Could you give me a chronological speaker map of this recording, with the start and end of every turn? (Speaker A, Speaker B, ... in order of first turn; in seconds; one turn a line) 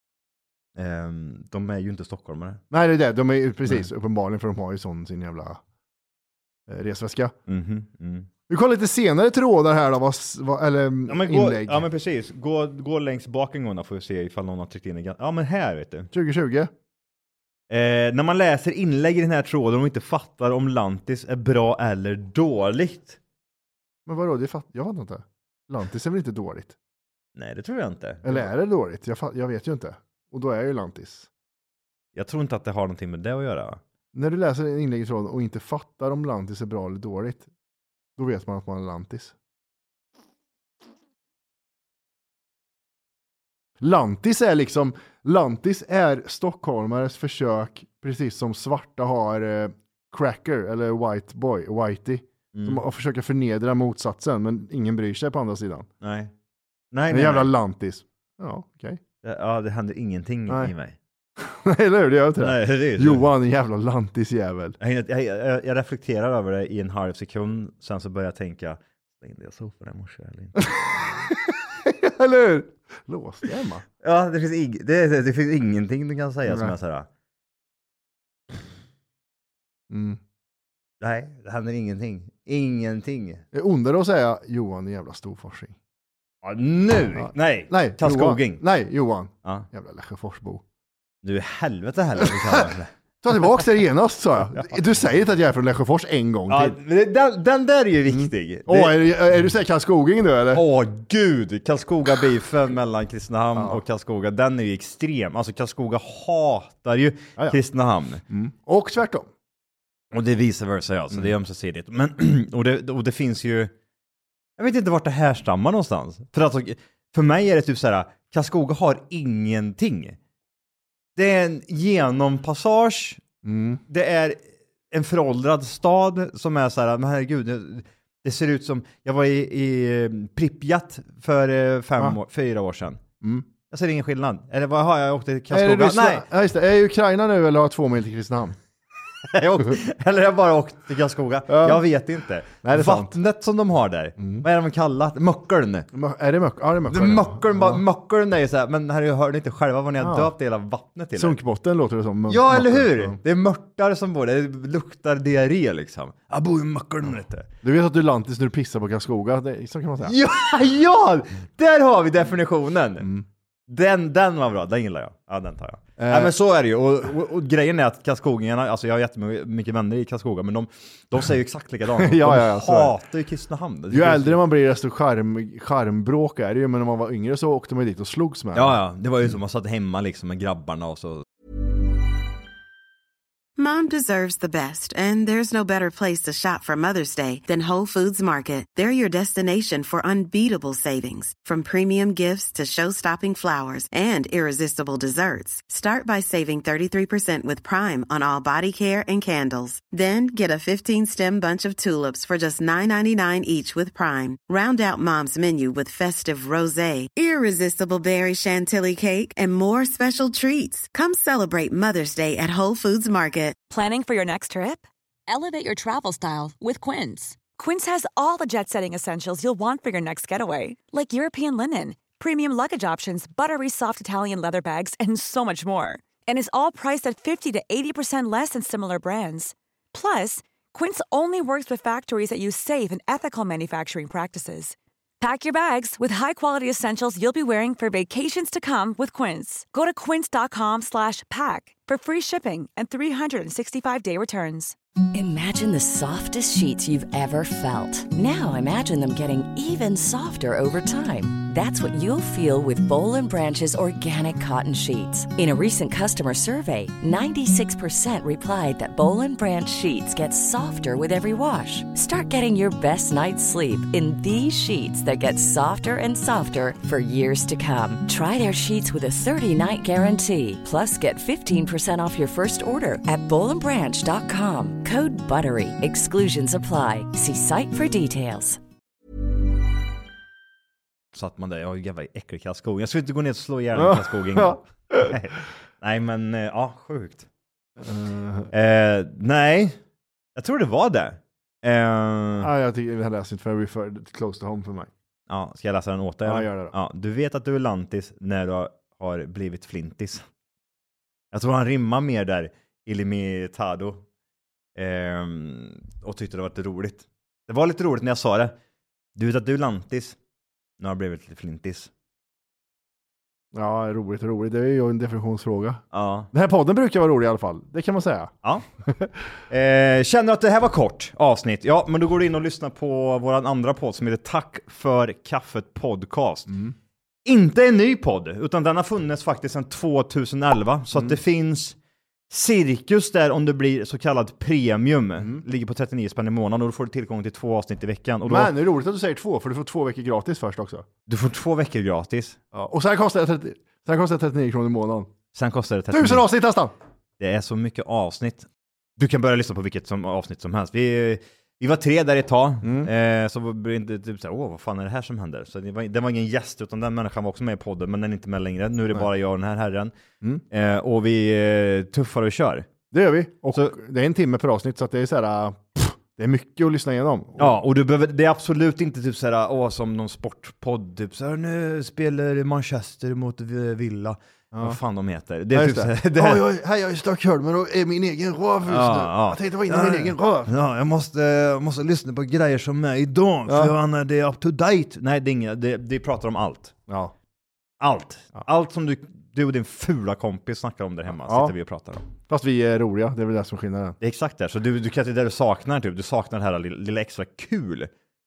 Speaker A: 0.8-2.6
Speaker B: 2.7-5.6
Speaker B: 6.7-7.4
Speaker A: 7.5-8.3
Speaker B: 8.5-11.9
Speaker A: 11.1-16.1
Speaker B: 16.1-16.7
Speaker A: 17.7-23.2
Speaker B: 24.1-26.8
Speaker A: 27.4-28.5
Speaker B: 28.2-31.3
Speaker A: 32.1-33.8
Speaker B: 34.1-37.5
Speaker B: 38.2-39.3
Speaker B: 43.8-55.9
Speaker A: 52.5-52.8
Speaker A: 56.0-56.3
Speaker A: 56.9-57.5
Speaker B: 57.1-59.0
Speaker A: 59.2-61.0
Speaker B: 61.4-64.8
Speaker A: 62.4-63.2
Speaker A: 64.8-71.3
Speaker B: 70.6-73.8
Speaker A: 74.0-77.1
Speaker B: 76.5-76.7
Speaker B: 79.9-80.2
Speaker A: 81.0-83.4
Speaker B: 83.5-85.8
Speaker A: 86.4-88.6
Speaker B: 87.2-90.6
Speaker A: 91.2-92.9
Speaker B: 92.2-96.8
Speaker A: 96.5-99.1
Speaker B: 98.1-100.6
Speaker A: 100.5-108.2
Speaker B: 108.3-109.3
Speaker A: 110.1-113.7
Speaker A: 114.6-120.2
Speaker A: 121.2-123.2
Speaker B: 123.4-123.8
Speaker A: 123.9-133.0
Speaker B: 133.2-133.5
Speaker A: 133.7-136.3
Speaker B: 135.5-138.6
Speaker A: 139.3-145.9
Speaker B: 141.5-141.8
Speaker B: 142.6-143.2
Speaker B: 144.2-144.4
Speaker B: 145.9-147.8
Speaker A: 146.9-151.4
Speaker B: 150.0-150.3
Speaker B: 151.2-153.2
Speaker A: 152.3-157.5
Speaker B: 157.6-160.2
Speaker A: 160.1-163.1
Speaker B: 163.0-163.3
Speaker A: 163.7-174.4
Speaker B: 166.0-166.3
Speaker B: 172.0-172.9
Speaker B: 173.9-178.8
Speaker A: 178.5-181.2
Speaker C: 183.6-213.6
Speaker D: 213.7-244.8
Speaker E: 245.1-278.6
Speaker A: 281.1-287.3
Speaker B: 283.8-285.2
Speaker B: 287.8-288.5
Speaker A: 288.5-289.8
Speaker A: 290.4-292.5
Speaker B: 292.4-294.9
Speaker A: 295.3-300.3
Speaker B: 296.2-296.7
Speaker A: 301.3-304.0
Speaker A: 304.8-308.6
Speaker A: 309.2-310.2
Speaker A: 310.8-311.9
Speaker B: 313.5-318.3
Speaker A: 315.9-316.3
Speaker B: 318.8-319.1
Speaker A: 319.5-326.6
Speaker B: 326.5-326.8
Speaker A: 327.2-331.8
Speaker A: 332.3-338.5
Speaker B: 335.2-335.4
Speaker B: 338.3-340.9
Speaker A: 341.1-342.4
Speaker B: 342.5-345.1
Speaker A: 345.3-346.3
Speaker B: 345.9-346.7
Speaker A: 347.2-359.9
Speaker B: 352.6-352.9
Speaker A: 360.5-362.7
Speaker B: 362.9-367.6
Speaker A: 367.4-376.4
Speaker B: 374.5-374.8
Speaker B: 375.5-380.5
Speaker A: 378.7-386.7
Speaker B: 383.5-383.8
Speaker B: 386.9-387.1
Speaker A: 387.8-392.1
Speaker B: 391.1-391.5
Speaker B: 392.3-394.0
Speaker A: 394.0-397.9